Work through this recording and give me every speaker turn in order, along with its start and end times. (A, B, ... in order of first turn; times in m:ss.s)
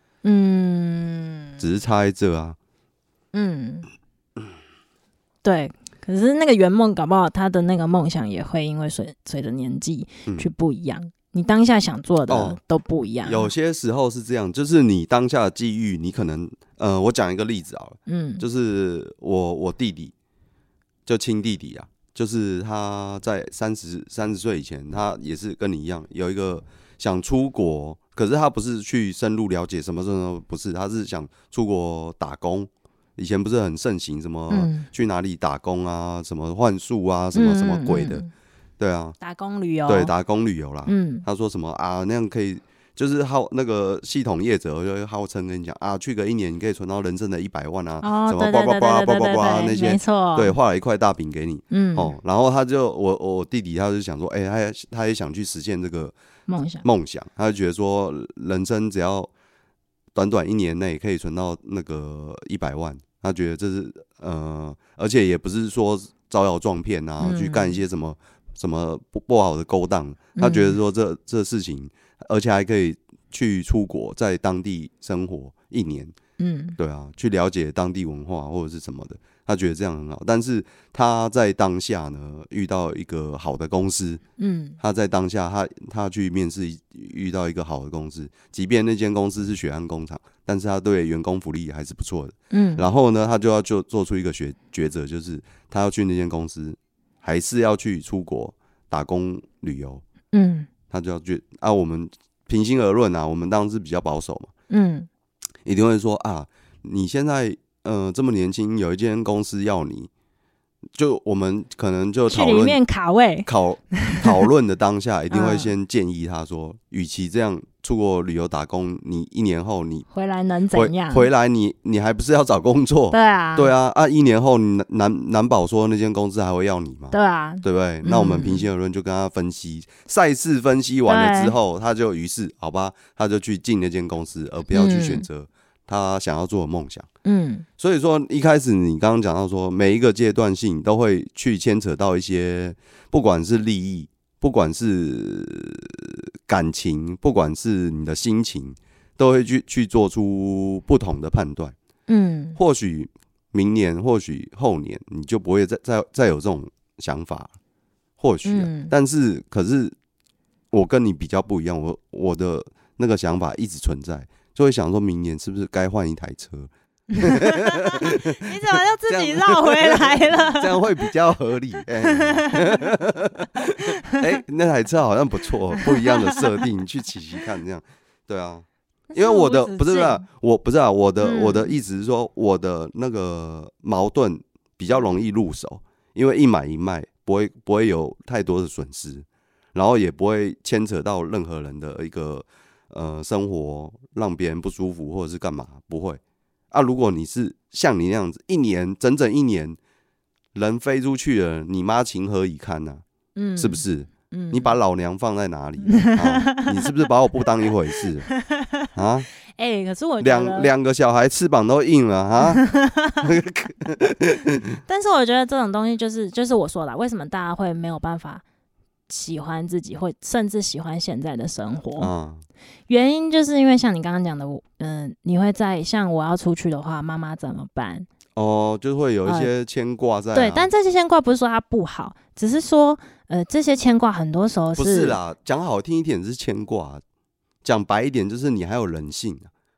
0:00.2-0:01.6 A
0:01.6-0:02.6 B
0:03.3-0:03.9 A
0:05.4-0:13.5 A
0:12.3-0:12.6 B
0:13.2-0:20.1 B
0:18.1-0:18.4 A
0:21.0-0:38.2 B
0:34.5-0:34.9 A
0:37.3-0:38.3 A
0:38.8-0:39.1 B
0:39.2-0:40.1 A
0:39.9-0:56.1 B
0:40.8-0:41.2 A
0:48.0-0:50.6 A
0:51.7-0:52.1 A
0:56.5-0:56.8 A
0:56.8-0:59.3 B
1:00.1-1:16.1 B
1:07.2-1:07.8 A
1:10.4-1:10.8 A
1:16.4-1:16.8 A
1:16.8-1:24.2 B
1:24.4-1:24.8 A
1:24.8-1:40.0 B
1:32.5-1:32.8 A
1:40.3-1:40.7 A
1:40.9-1:44.5 B
1:44.7-1:45.1 A
1:45.6-1:50.1 B
1:50.9-1:52.8 B
1:52.3-1:54.4 A
1:53.4-2:00.1 B
1:55.3-1:55.7 A
2:00.1-2:01.3 A
2:00.7-2:17.1 B
2:03.1-2:03.7 A
2:07.1-2:08.7 A
2:11.1-2:11.5 A
2:14.7-2:15.2 A
2:17.2-2:17.6 A
2:17.8-2:31.7 B
2:32.1-2:32.6 A
2:32.6-2:37.5 B
2:38.2-2:39.9 B
2:38.4-2:38.9 A
2:40.7-2:48.5 B
2:47.1-2:51.0 A
2:49.1-3:19.8 B
2:52.0-2:52.8 A
2:53.8-2:54.2 A
2:55.7-2:56.6 A
2:59.1-3:00.2 A
3:01.2-3:01.8 A
3:20.5-3:23.0 B
3:23.4-3:24.8 A
3:23.6-3:28.3 B
3:25.8-3:26.9 A
3:28.0-3:28.9 A
3:28.9-3:29.3 B
3:29.6-3:30.7 A
3:30.2-3:32.6 B
3:32.4-3:33.3 A
3:33.2-3:34.8 B
3:34.8-3:38.4 A
3:39.1-3:42.1 A
3:42.0-3:42.4 B
3:42.9-3:48.1 A
3:48.3-3:50.7 B
3:49.2-3:49.5 A
3:50.3-3:55.2 A
3:54.8-3:57.0 B
3:57.6-3:59.5 B